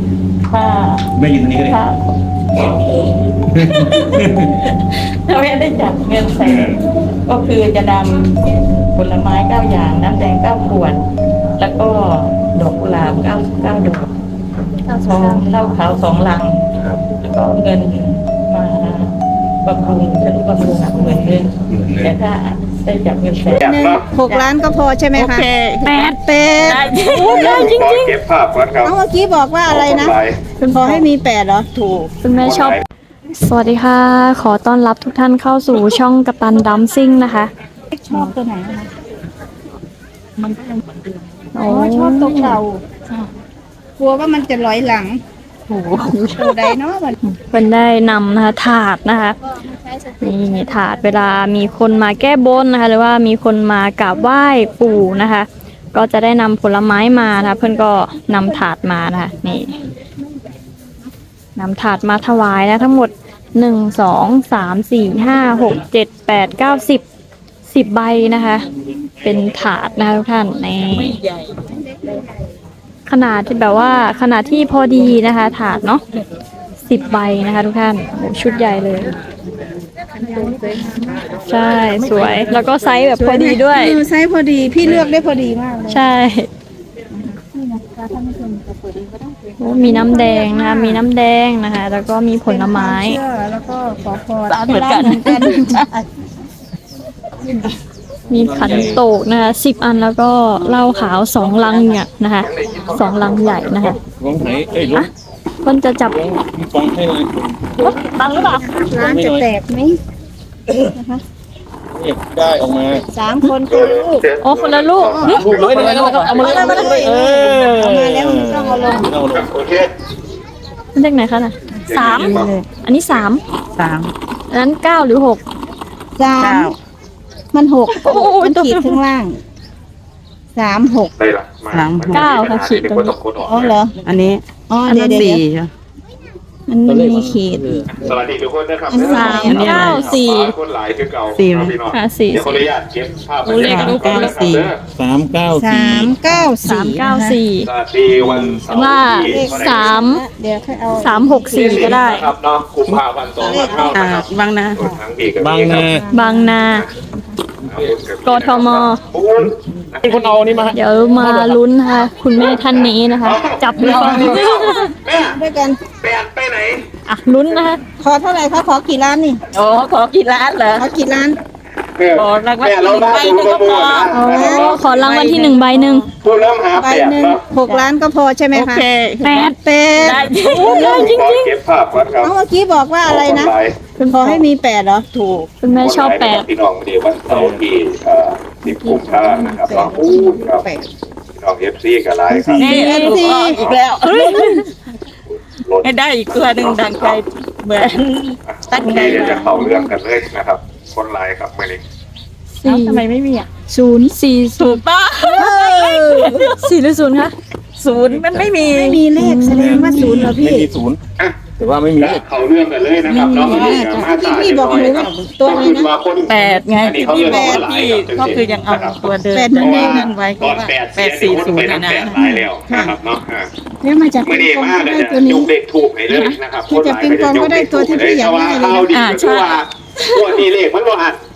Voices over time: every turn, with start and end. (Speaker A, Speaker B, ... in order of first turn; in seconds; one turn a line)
Speaker A: 0.5-1.0
Speaker B: 1.1-1.8
Speaker A: 1.6-2.0
Speaker B: 3.5-4.5
Speaker A: 4.3-11.0
Speaker B: 6.4-6.8
Speaker A: 11.6-14.1
Speaker C: 14.8-15.4
Speaker A: 15.1-16.6
Speaker A: 17.5-23.7
Speaker B: 21.7-22.1
Speaker D: 23.6-24.0
Speaker E: 23.6-25.5
Speaker A: 24.3-24.5
Speaker A: 25.1-27.7
Speaker C: 25.8-26.2
Speaker E: 26.0-26.9
Speaker C: 27.2-28.0
Speaker D: 27.2-28.9
Speaker E: 28.8-30.2
Speaker D: 29.7-30.4
Speaker C: 30.6-31.1
Speaker E: 30.7-32.1
Speaker C: 32.2-32.8
Speaker D: 32.3-32.8
Speaker C: 33.4-37.5
Speaker E: 37.9-38.9
Speaker A: 40.4-41.3
Speaker C: 41.5-42.6
Speaker E: 41.7-42.9
Speaker E: 44.0-45.2
Speaker A: 45.7-46.4
Speaker C: 46.1-46.7
Speaker E: 46.4-47.2
Speaker C: 47.2-49.4
Speaker E: 49.5-51.7
Speaker C: 50.2-59.7
Speaker C: 61.6-67.0
Speaker C: 67.7-68.7
Speaker C: 69.2-71.1
Speaker A: 70.9-71.5
Speaker E: 71.7-72.3
Speaker C: 73.1-76.0
Speaker C: 76.8-79.1
Speaker E: 80.1-81.4
Speaker C: 81.4-84.0
Speaker E: 83.0-86.0
Speaker C: 85.9-86.5
Speaker E: 87.1-91.1
Speaker C: 89.6-93.2
Speaker E: 92.5-96.0
Speaker A: 94.5-95.9
Speaker C: 98.3-104.0
Speaker B: 98.3-99.0
Speaker D: 102.4-104.0
Speaker B: 104.1-105.1
Speaker C: 105.6-106.2
Speaker B: 106.0-107.7
Speaker C: 107.8-108.7
Speaker E: 108.2-110.0
Speaker B: 108.9-109.5
Speaker E: 110.9-111.2
Speaker B: 111.9-113.0
Speaker E: 113.1-114.3
Speaker D: 113.7-116.0
Speaker C: 114.4-115.4
Speaker E: 115.0-115.4
Speaker B: 115.3-119.5
Speaker A: 115.5-116.9
Speaker E: 116.2-119.1
Speaker C: 116.5-117.1
Speaker D: 119.3-119.9
Speaker C: 120.9-123.4
Speaker D: 121.8-122.5
Speaker A: 122.3-122.6
Speaker A: 123.8-124.1
Speaker C: 124.5-125.4
Speaker E: 126.2-126.7
Speaker A: 126.4-126.8
Speaker E: 127.5-129.4
Speaker C: 128.0-129.0
Speaker E: 130.5-131.1
Speaker D: 131.2-133.8
Speaker A: 131.7-132.5
Speaker C: 132.1-133.2
Speaker E: 133.4-134.0
Speaker A: 134.0-135.7
Speaker E: 134.7-135.4
Speaker E: 136.7-137.8
Speaker B: 136.9-137.9
Speaker D: 137.9-144.8
Speaker E: 138.9-140.0
Speaker A: 139.0-140.2
Speaker C: 139.1-140.5
Speaker A: 141.3-141.8
Speaker C: 141.9-142.5
Speaker C: 143.5-144.3
Speaker A: 143.6-144.7
Speaker B: 144.9-146.2
Speaker E: 145.6-147.4
Speaker C: 146.4-147.7
Speaker D: 147.7-150.0
Speaker B: 148.2-148.7
Speaker C: 148.7-150.2
Speaker E: 149.1-152.0
Speaker C: 151.0-152.3
Speaker D: 151.5-155.9
Speaker E: 153.4-154.0
Speaker A: 153.5-154.8
Speaker B: 155.3-156.1
Speaker E: 155.8-156.8
Speaker C: 156.1-156.9
Speaker D: 157.7-160.5
Speaker C: 158.2-159.0
Speaker B: 159.4-161.6
Speaker C: 160.7-164.9
Speaker D: 162.3-165.4
Speaker A: 163.8-164.6
Speaker E: 165.1-165.8
Speaker D: 166.0-166.9
Speaker C: 167.1-167.8
Speaker E: 168.0-169.4
Speaker A: 169.5-170.9
Speaker E: 170.8-171.4
Speaker D: 172.0-175.0
Speaker A: 172.2-175.8
Speaker C: 174.1-176.1
Speaker E: 174.2-174.8
Speaker D: 176.2-177.4
Speaker E: 176.7-181.2
Speaker A: 177.6-177.9
Speaker A: 178.5-180.9
Speaker C: 179.2-179.5
Speaker D: 180.6-182.3
Speaker C: 180.7-181.5
Speaker E: 182.2-185.4
Speaker D: 183.0-183.8
Speaker C: 184.0-184.4
Speaker C: 185.6-186.5
Speaker D: 185.7-190.7
Speaker B: 187.3-187.6
Speaker E: 188.7-190.9
Speaker D: 191.3-193.8
Speaker B: 192.3-192.8
Speaker E: 192.5-193.6
Speaker A: 192.6-194.6
Speaker C: 194.1-194.6
Speaker D: 195.6-195.9
Speaker A: 195.8-199.5
Speaker D: 196.5-197.2
Speaker D: 198.5-201.8
Speaker C: 199.0-199.8
Speaker C: 202.6-203.0
Speaker A: 202.6-203.5
Speaker E: 203.7-204.2
Speaker C: 204.1-204.8
Speaker A: 204.6-206.6
Speaker E: 205.2-206.5
Speaker C: 206.2-207.3
Speaker A: 207.8-209.0
Speaker B: 208.1-208.5
Speaker E: 208.6-210.7
Speaker C: 209.2-210.3
Speaker B: 209.5-211.0
Speaker D: 211.2-211.4
Speaker B: 211.6-212.2
Speaker D: 211.9-219.0
Speaker A: 213.1-214.0
Speaker E: 213.2-215.9
Speaker A: 216.3-222.3
Speaker E: 216.9-217.6
Speaker E: 219.3-220.1
Speaker D: 219.5-223.5
Speaker E: 222.2-222.9
Speaker E: 223.8-225.5
Speaker D: 224.2-231.2
Speaker A: 226.1-226.4
Speaker E: 226.7-228.9
Speaker A: 228.9-230.4